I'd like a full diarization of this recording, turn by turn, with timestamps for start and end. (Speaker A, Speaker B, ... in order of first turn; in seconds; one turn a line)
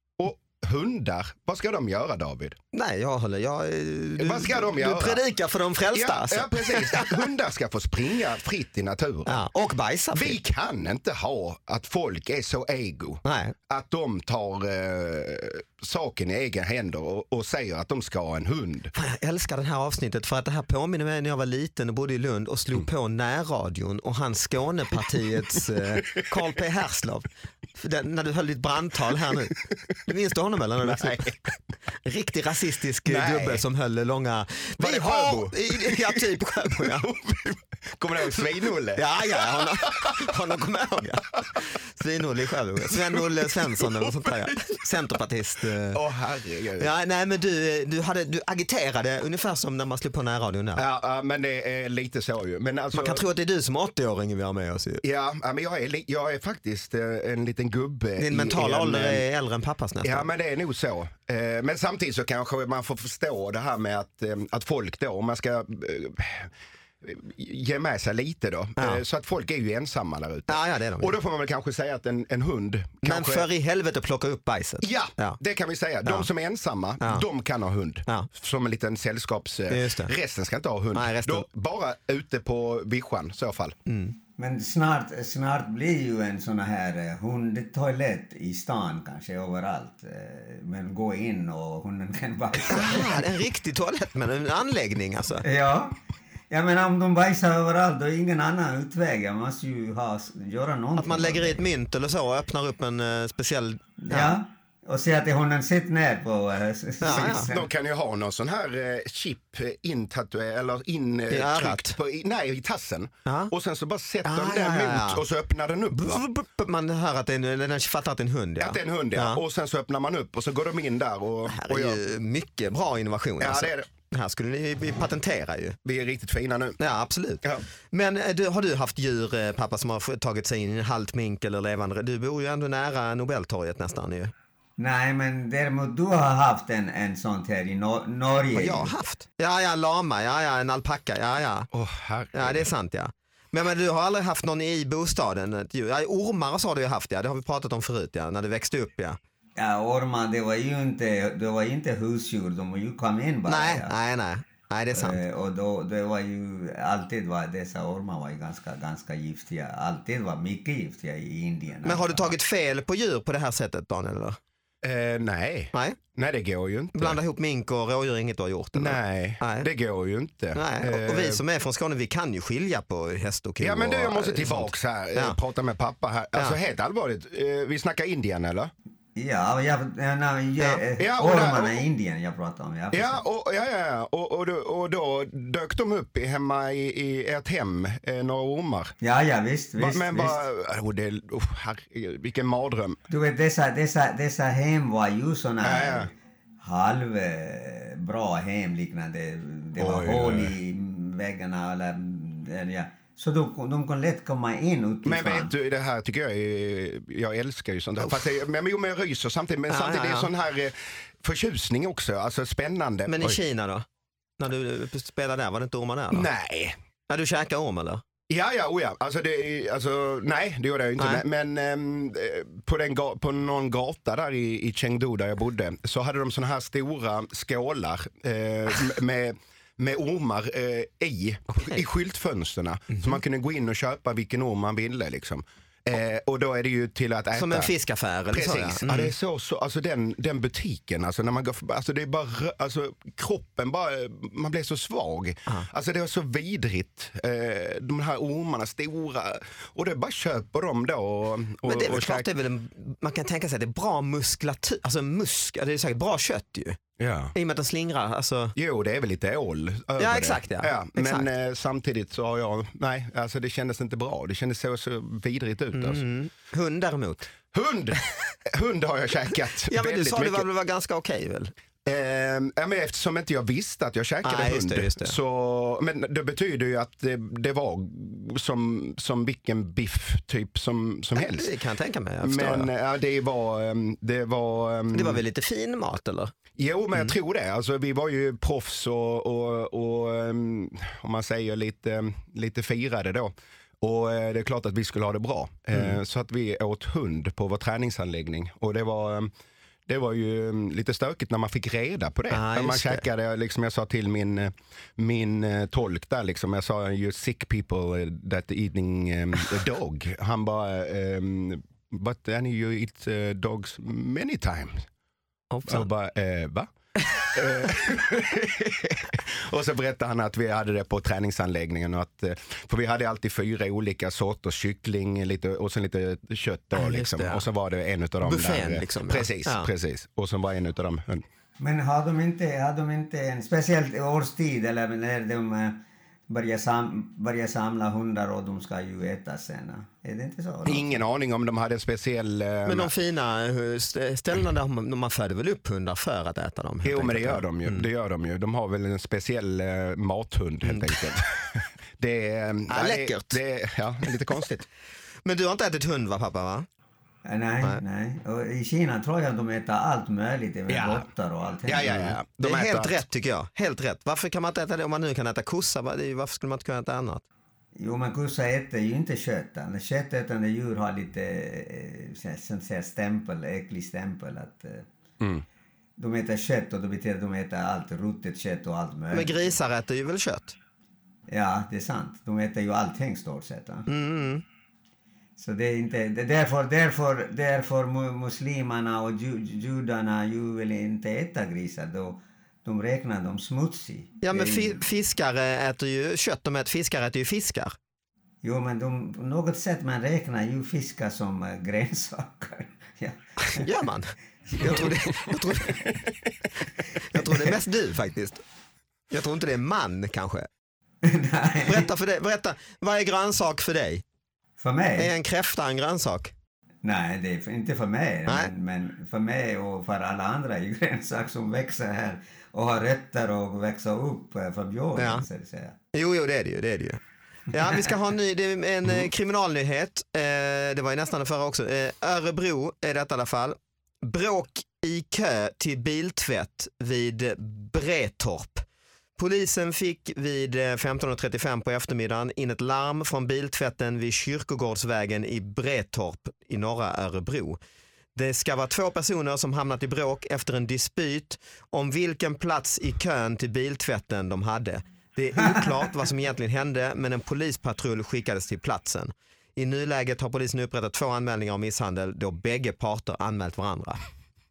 Speaker A: 0.2-2.6
Speaker B: 2.7-7.3
Speaker A: 4.2-5.2
Speaker A: 5.9-9.4
Speaker B: 9.2-10.4
Speaker A: 10.1-18.9
Speaker B: 13.2-13.5
Speaker B: 18.9-37.1
Speaker A: 30.8-31.5
Speaker A: 33.0-33.6
Speaker A: 34.8-40.4
Speaker B: 38.9-46.0
Speaker A: 42.8-44.8
Speaker A: 45.9-46.9
Speaker B: 46.8-50.8
Speaker A: 50.8-53.2
Speaker B: 52.9-55.0
Speaker A: 55.0-59.2
Speaker B: 58.2-60.3
Speaker A: 60.0-73.5
Speaker B: 68.8-69.0
Speaker B: 70.5-71.1
Speaker B: 73.0-75.4
Speaker A: 74.8-83.8
Speaker B: 77.0-77.2
Speaker B: 79.7-80.1
Speaker B: 80.9-81.5
Speaker B: 83.9-84.2
Speaker C: 84.4-93.3
Speaker B: 92.6-95.4
Speaker C: 95.4-96.0
Speaker C: 96.5-101.6
Speaker B: 101.0-104.4
Speaker C: 104.0-107.7
Speaker B: 107.0-107.5
Speaker A: 107.1-116.2
Speaker B: 111.3-112.0
Speaker B: 113.2-113.5
Speaker B: 114.2-115.2
Speaker B: 115.9-119.4
Speaker A: 118.6-122.0
Speaker B: 121.5-125.8
Speaker A: 123.4-123.9
Speaker A: 125.8-126.8
Speaker B: 126.8-134.3
Speaker C: 134.8-138.9
Speaker B: 138.5-141.7
Speaker A: 141.7-142.7
Speaker B: 142.3-149.2
Speaker C: 149.6-153.9
Speaker B: 153.5-155.2
Speaker C: 154.9-162.3
Speaker B: 161.8-164.4
Speaker A: 164.8-167.2
Speaker B: 165.7-166.0
Speaker B: 166.9-169.7
Speaker A: 168.7-171.4
Speaker B: 170.5-175.4
Speaker A: 173.6-178.7
Speaker C: 179.2-183.2
Speaker A: 181.0-181.8
Speaker A: 182.9-188.9
Speaker C: 189.0-190.4
Speaker A: 189.8-193.0
Speaker C: 193.1-205.5
Speaker A: 195.6-196.1
Speaker A: 199.8-200.5
Speaker A: 205.0-213.4
Speaker B: 209.7-210.3
Speaker B: 213.1-213.8
Speaker B: 214.4-216.3
Speaker A: 216.1-216.7
Speaker B: 217.1-218.0
Speaker A: 218.3-237.7
Speaker B: 221.0-221.2
Speaker B: 231.5-231.8
Speaker B: 232.9-233.2
Speaker B: 237.3-239.1
Speaker A: 238.3-252.3
Speaker B: 251.6-256.8
Speaker A: 257.0-257.3
Speaker B: 257.3-258.5
Speaker A: 258.6-266.0
Speaker B: 260.0-261.3
Speaker B: 265.7-267.3
Speaker A: 267.5-270.4
Speaker B: 269.6-271.5
Speaker A: 271.8-281.5
Speaker B: 274.2-275.2
Speaker B: 281.1-282.7
Speaker A: 282.2-285.2
Speaker B: 284.9-286.3
Speaker A: 286.6-299.3
Speaker B: 295.7-296.0
Speaker A: 299.9-314.8
Speaker B: 302.3-303.0
Speaker B: 315.5-315.9
Speaker A: 315.6-316.7
Speaker A: 317.3-331.2
Speaker B: 326.7-327.5
Speaker B: 328.2-329.7
Speaker C: 331.6-341.0
Speaker A: 340.6-342.9
Speaker B: 342.6-347.9
Speaker A: 346.8-354.6
Speaker B: 350.6-351.0
Speaker B: 352.7-353.4
Speaker B: 355.2-356.6
Speaker C: 357.2-361.9
Speaker A: 360.7-361.1
Speaker A: 361.6-363.0
Speaker B: 361.8-367.2
Speaker C: 367.8-374.9
Speaker C: 376.0-379.6
Speaker B: 379.1-380.6
Speaker C: 381.3-383.9
Speaker B: 383.9-384.4
Speaker C: 385.4-394.9
Speaker B: 394.2-397.8
Speaker C: 398.4-403.7
Speaker B: 403.4-405.9
Speaker C: 404.5-405.2
Speaker B: 406.9-408.4
Speaker B: 409.1-410.5
Speaker C: 411.0-411.9
Speaker B: 411.6-414.0
Speaker C: 414.6-415.1
Speaker B: 415.0-416.3
Speaker C: 416.8-425.8
Speaker B: 425.0-425.2
Speaker B: 425.9-438.6
Speaker B: 439.2-447.6
Speaker B: 448.1-464.0